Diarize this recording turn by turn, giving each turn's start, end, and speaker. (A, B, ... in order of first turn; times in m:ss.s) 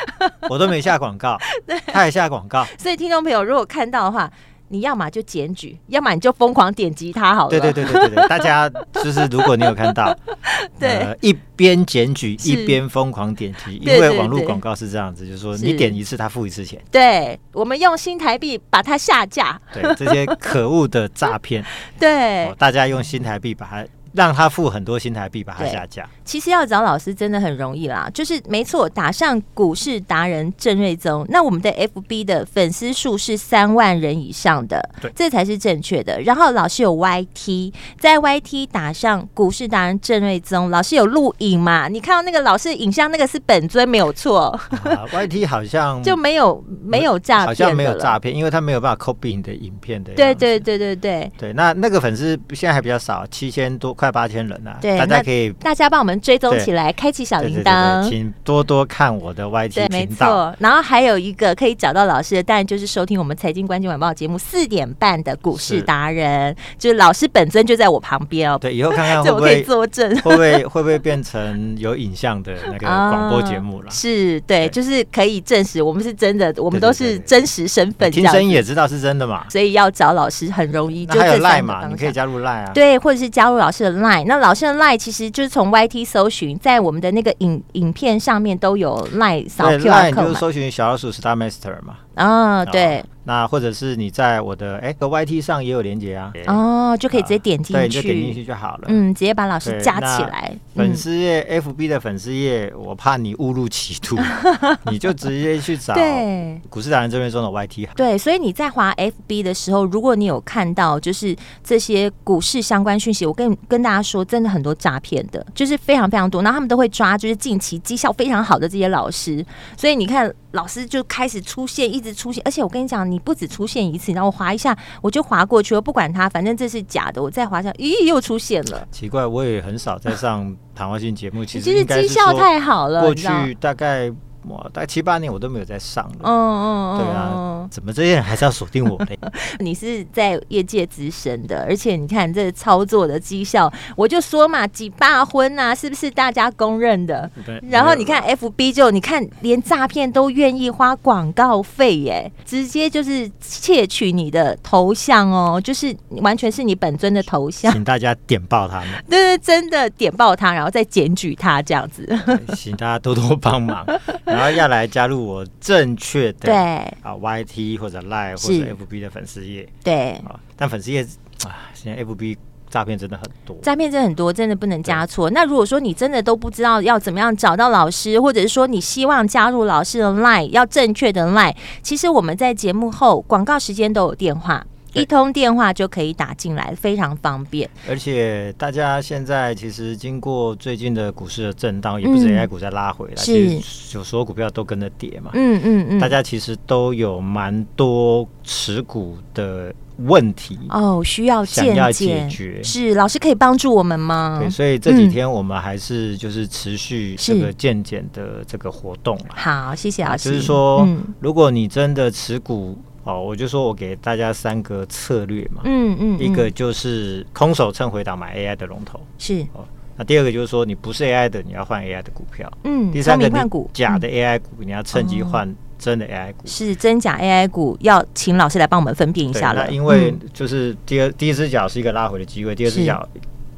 0:00.4-0:02.7 A
0:01.6-0:02.0 B
0:02.6-0:08.5 B
0:07.5-0:10.2 A
0:09.2-0:09.8 B
0:10.4-0:11.1 B
0:10.8-0:16.8 A
0:12.4-0:12.8 B
0:13.8-0:14.6 B
0:15.5-0:16.0 B
0:16.9-0:20.5 B
0:19.7-0:21.7 A
0:21.8-0:22.6 B
0:22.4-0:26.1 A
0:25.6-0:45.0 B
0:44.7-0:46.2 A
0:46.0-0:48.2 B
0:46.9-0:50.6 A
0:50.2-0:51.3 B
0:51.4-0:55.6 A
0:54.8-0:58.2 B
0:57.4-1:00.4 A
0:59.7-1:10.6 B
1:05.5-1:05.9 A
1:08.6-1:14.0 A
1:12.8-1:18.6 B
1:16.7-1:17.4 A
1:18.0-1:19.5 A
1:19.5-1:22.2 B
1:21.0-1:22.8 A
1:22.7-1:30.4 B
1:29.6-1:32.0 A
1:32.2-1:33.1 B
1:32.7-1:36.6 A
1:36.5-1:41.0 B
1:37.1-1:39.0 A
1:39.6-1:48.0 A
1:44.4-1:44.8 B
1:45.9-1:46.6 B
1:48.0-2:08.9 B
2:08.9-2:16.3 A
2:11.5-2:13.5 B
2:16.2-2:17.7 B
2:16.9-2:19.2 A
2:19.2-2:37.8 B
2:27.3-2:28.3 A
2:37.6-2:39.0 A
2:39.0-2:42.5 B
2:42.2-2:49.7 A
2:46.4-2:47.0 B
2:48.4-2:48.8 B
2:49.8-2:50.3 B
2:50.2-2:53.7 A
2:53.6-3:07.7 B
3:07.8-3:15.4 A
3:12.0-3:12.5 B
3:13.2-3:13.6 B
3:15.3-3:16.2 B
3:16.0-3:20.7 A
3:20.7-3:25.2 B
3:21.5-3:22.7 A
3:24.4-3:29.4 A
3:27.2-3:27.5 B
3:29.4-3:31.1 B
3:30.0-3:46.6 A
3:35.6-3:36.5 B
3:39.2-3:39.5 B
3:42.6-3:44.0 B
3:44.9-3:45.4 B
3:46.5-3:50.2 B
3:49.3-3:53.1 A
3:52.7-3:53.0 B